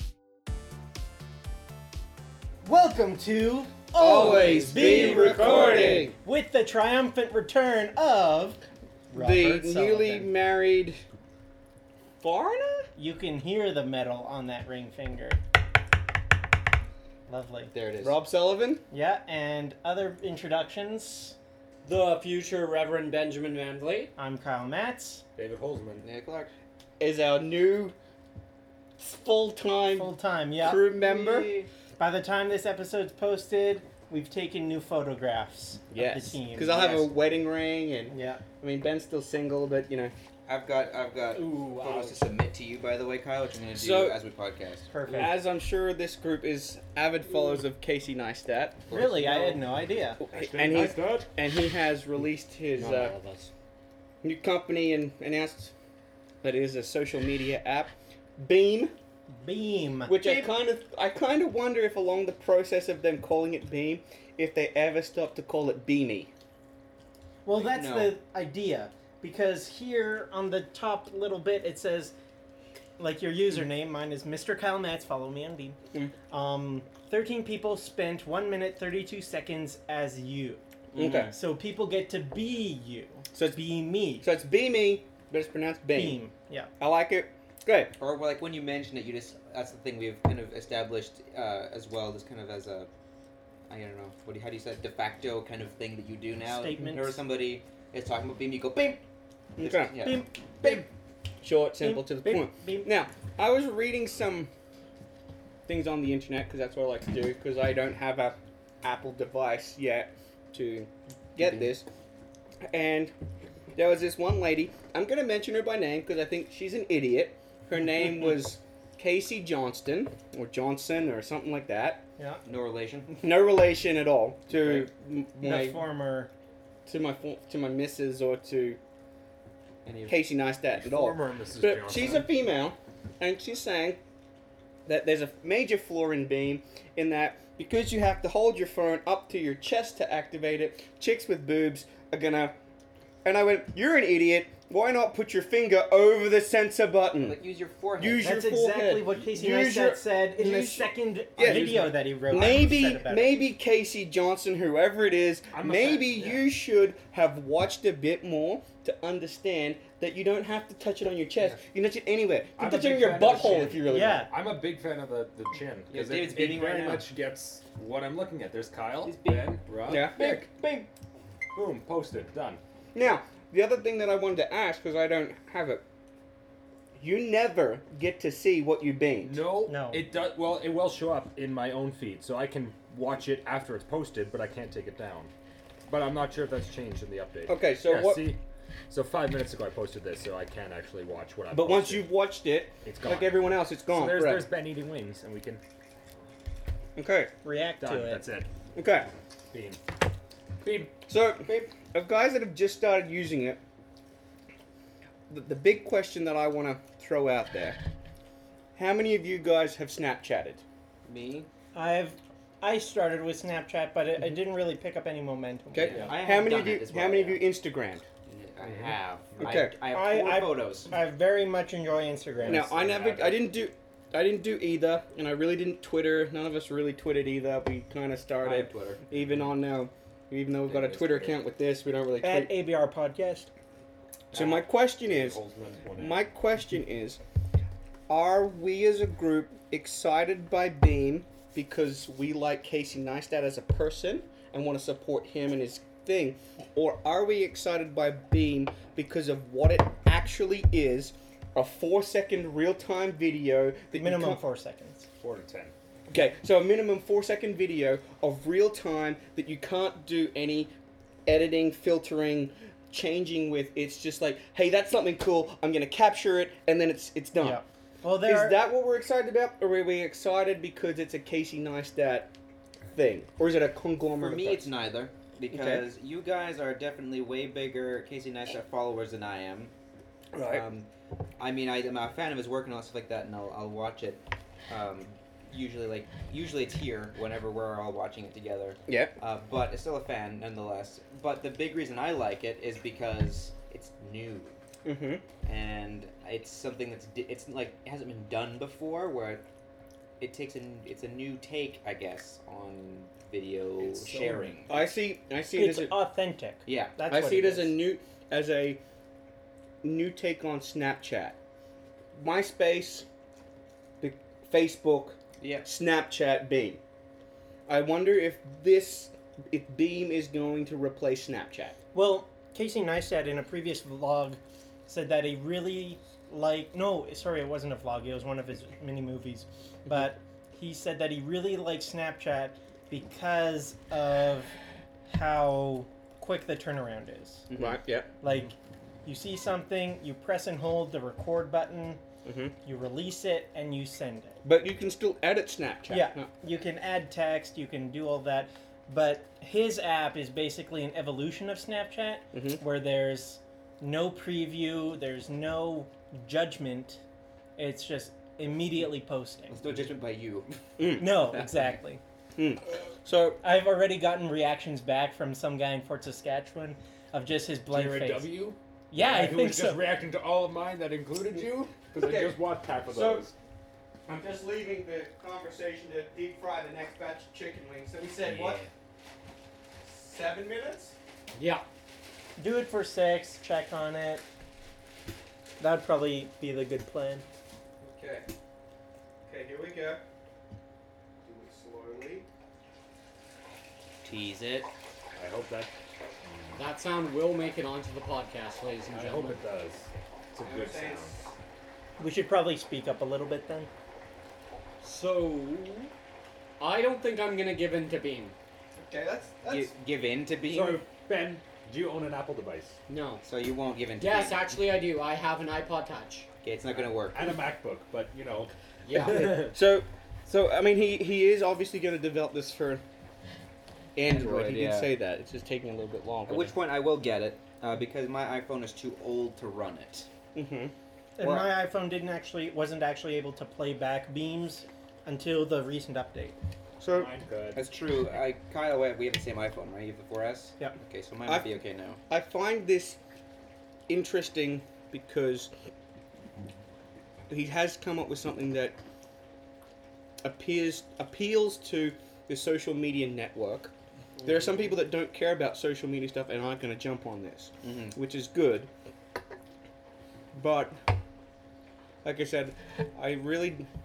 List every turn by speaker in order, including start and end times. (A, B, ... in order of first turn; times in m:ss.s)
0:02.6-0:10.3 A
0:04.0-0:06.2 B
0:09.1-0:11.0 B
0:12.2-0:12.9 B
0:13.0-0:15.4 A
0:17.3-0:17.7 A
0:17.7-0:18.2 C
0:18.0-0:18.8 B
0:18.9-0:21.4 A
0:21.8-0:24.1 D
0:24.2-0:25.2 A
0:25.4-0:26.0 E
0:26.0-0:26.5 C
0:27.0-0:28.0 B
0:29.0-0:31.5 B
0:29.9-0:30.8 A
0:31.0-0:31.7 C
0:32.0-0:37.0 A
0:35.9-0:40.1 B
0:36.8-0:37.1 C
0:38.1-0:38.4 A
0:40.5-0:44.9 C
0:41.4-0:42.2 D
0:43.8-0:44.2 B
0:44.9-0:45.4 A
0:45.1-0:49.3 B
0:48.9-0:49.5 C
0:48.9-0:50.2 A
0:50.2-0:53.2 B
0:50.3-0:51.3 E
0:52.8-0:53.5 D
0:54.2-0:55.7 B
0:56.4-0:58.9 B
0:59.3-1:00.4 A
1:00.1-1:06.3 B
1:07.4-1:12.1 A
1:07.6-1:08.2 C
1:13.0-1:15.8 A
1:16.3-1:20.6 A
1:21.0-1:21.3 C
1:21.0-1:21.4 B
1:21.2-1:24.3 A
1:23.3-1:23.6 B
1:24.2-1:26.2 B
1:25.9-1:26.7 A
1:26.8-1:27.9 B
1:28.0-1:32.9 C
1:33.7-1:39.0 C
1:36.4-1:37.2 A
1:39.6-1:40.8 B
1:39.6-1:40.8 C
1:40.0-1:40.9 A
1:41.4-1:44.5 B
1:41.8-1:42.9 A
1:45.7-1:51.9 B
1:52.7-1:53.1 B
1:53.8-2:02.0 B
2:02.2-2:02.4 A
2:02.4-2:03.1 C
2:03.2-2:05.9 B
2:05.4-2:06.3 A
2:06.9-2:08.8 B
2:09.8-2:10.2 C
2:10.1-2:14.0 B
2:10.8-2:12.3 E
2:14.9-2:22.5 B
2:23.2-2:27.4 B
2:27.2-2:28.3 C
2:28.0-2:44.2 B
2:28.1-2:33.4 A
2:31.4-2:32.7 E
2:35.5-2:36.4 E
2:42.6-2:50.5 E
2:43.8-2:44.3 A
2:45.9-2:47.1 C
2:49.0-2:49.5 C
2:49.9-2:50.9 B
2:51.5-2:52.6 E
2:52.9-2:55.8 B
2:57.0-2:59.4 B
2:59.2-3:05.3 E
2:59.7-3:00.0 A
3:05.9-3:12.1 E
3:07.5-3:08.3 B
3:11.5-3:14.5 B
3:12.8-3:15.6 E
3:17.0-3:17.3 B
3:17.4-3:18.2 A
3:17.8-3:18.5 E
3:18.8-3:19.1 B
3:19.5-3:19.8 E
3:20.6-3:21.0 E
3:21.1-3:23.6 B
3:25.3-3:27.8 B
3:28.8-3:30.6 B
3:31.7-3:36.1 A
3:35.7-3:38.1 B
3:35.8-3:37.4 C
3:38.3-3:40.9 C
3:38.6-3:39.0 E
3:39.4-3:39.8 B
3:39.9-3:42.7 A
3:42.4-3:43.4 E
3:42.5-3:52.5 B
3:48.4-3:49.0 C
3:50.7-3:51.3 C
3:52.2-3:53.5 A
3:54.3-3:55.4 B
3:54.3-3:56.2 E
3:56.0-3:57.2 B
3:58.1-4:14.4 B
4:13.9-4:15.1 A
4:15.2-4:15.7 E
4:16.1-4:20.7 B
4:21.3-4:27.6 B
4:27.4-4:28.6 A
4:28.2-4:32.3 B
4:33.0-4:34.7 B
4:34.2-4:39.7 C
4:35.5-4:35.9 B
4:40.3-4:40.7 B
4:40.4-4:54.5 C
4:48.9-4:49.1 B
4:54.8-4:55.2 B
4:55.4-4:59.4 C
5:00.2-5:04.8 C
5:03.8-5:04.5 E
5:04.7-5:06.0 B
5:05.5-5:07.8 A
5:06.7-5:07.0 C
5:07.1-5:08.8 B
5:09.8-5:11.4 B
5:12.2-5:13.1 B
5:14.0-5:16.8 B
5:15.4-5:15.7 C
5:17.7-5:21.8 B
5:21.9-5:34.6 A
5:35.1-5:37.5 A
5:37.5-5:37.8 C
5:37.6-5:38.1 B
5:38.2-5:42.0 A
5:42.2-5:42.5 B
5:42.6-5:44.4 A
5:44.4-5:46.3 B
5:45.9-5:57.0 A
5:52.3-5:52.6 B
5:57.6-5:59.6 A
5:59.5-6:01.5 C
6:00.8-6:01.4 B
6:01.0-6:02.0 A
6:02.4-6:03.4 B
6:03.4-6:08.3 A
6:07.7-6:13.3 E
6:08.9-6:09.8 A
6:11.9-6:13.3 B
6:14.1-6:18.6 B
6:18.3-6:18.7 D
6:19.8-6:21.0 B
6:21.4-6:21.6 D
6:22.4-6:24.2 A
6:25.6-6:27.2 A
6:27.8-6:28.3 B
6:29.3-6:30.0 B
6:31.2-6:32.3 B
6:34.0-6:34.7 C
6:35.2-6:35.7 E
6:36.2-6:36.6 E
6:36.6-6:39.4 D
6:38.9-6:41.2 E
6:40.4-6:41.3 B
6:42.0-6:43.7 A
6:44.8-6:45.9 D
6:46.6-6:48.4 D
6:48.8-6:49.7 B
6:49.5-6:50.8 C
6:50.5-6:52.8 E
6:52.9-6:53.2 D
6:53.2-6:54.5 C
6:54.0-6:56.3 D
6:56.4-6:57.3 C
6:56.7-6:59.6 E
6:58.9-6:59.5 D
6:59.2-7:02.8 B
7:04.0-7:06.5 B
7:04.1-7:04.9 C
7:06.3-7:10.1 C
7:10.4-7:10.7 B
7:11.2-7:16.4 A
7:11.2-7:11.5 C
7:16.8-7:17.1 B
7:16.9-7:17.6 E
7:17.6-7:22.0 C
7:22.1-7:23.0 B
7:23.9-7:25.5 B
7:27.3-7:28.8 B
7:30.2-7:33.7 B
7:34.2-7:38.7 B
7:37.6-7:38.0 C
7:40.3-7:40.8 B
7:42.0-7:43.7 B